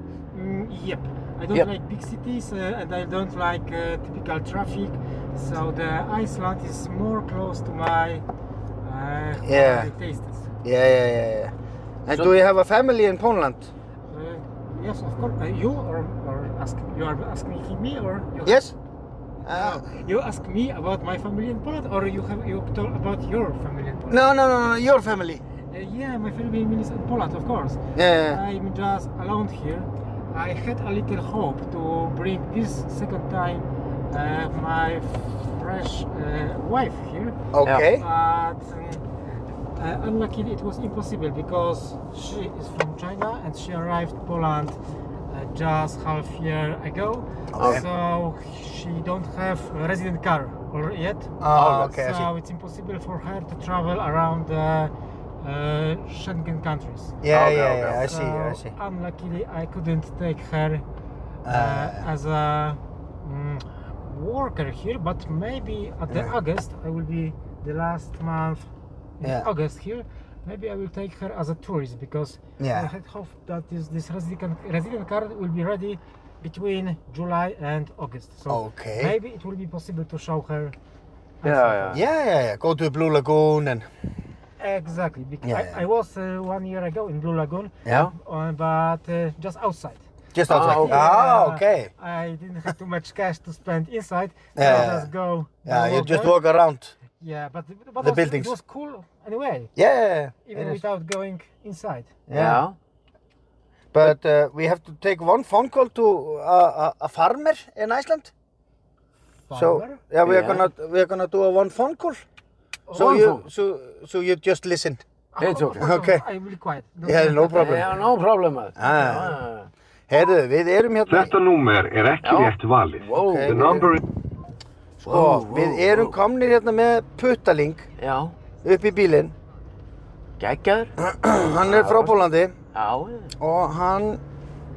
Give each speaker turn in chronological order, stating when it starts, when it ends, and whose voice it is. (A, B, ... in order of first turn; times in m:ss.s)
0:00.3-0:08.2 A
0:08.8-0:10.5 A
0:09.4-0:09.9 B
0:10.6-0:11.5 B
0:12.0-0:13.7 B
0:14.1-0:18.6 A
0:18.4-0:18.7 B
0:19.4-0:19.8 B
0:19.5-0:24.2 A
0:24.1-0:25.4 B
0:25.7-0:37.3 A
0:28.0-0:28.4 B
0:37.5-0:38.0 B
0:37.9-0:39.0 A
0:39.8-0:44.8 A
0:45.3-0:57.2 A
0:47.5-0:47.8 B
0:47.6-0:47.8 C
0:51.4-0:52.3 B
0:57.2-0:58.7 B
0:57.3-0:58.0 C
0:57.8-1:00.8 A
1:01.4-1:02.1 B
1:01.4-1:08.7 A
1:09.2-1:20.7 A
1:12.6-1:12.9 B
1:18.5-1:19.2 B
1:21.4-1:22.0 A
1:21.4-1:22.0 C
1:21.9-1:23.9 B
1:24.6-1:36.4 A
1:25.4-1:25.8 B
1:30.3-1:31.9 B
1:30.5-1:31.1 C
1:34.6-1:35.1 B
1:35.6-1:36.9 B
1:37.1-1:39.7 A
1:38.0-1:38.5 B
1:39.8-1:40.8 B
1:40.4-1:42.2 A
1:42.3-1:42.6 B
1:42.3-1:42.8 C
1:43.9-1:48.3 B
1:49.5-1:50.0 A
1:49.5-1:52.2 B
1:50.2-1:50.7 C
1:52.9-1:53.4 C
1:52.9-1:55.0 B
1:55.3-1:57.9 A
1:55.4-1:55.8 C
1:55.8-1:56.2 B
1:57.0-1:57.9 B
1:57.5-1:59.7 C
1:58.8-1:59.4 B
2:00.1-2:01.3 B
2:01.1-2:04.0 D
2:02.2-2:03.9 C
2:03.1-2:03.9 B
2:05.0-2:07.9 B
2:05.0-2:06.2 C
2:08.0-2:08.4 C
2:08.6-2:09.3 B
2:10.4-2:10.9 C
2:11.0-2:12.5 B
2:11.5-2:13.3 C
2:13.4-2:14.2 B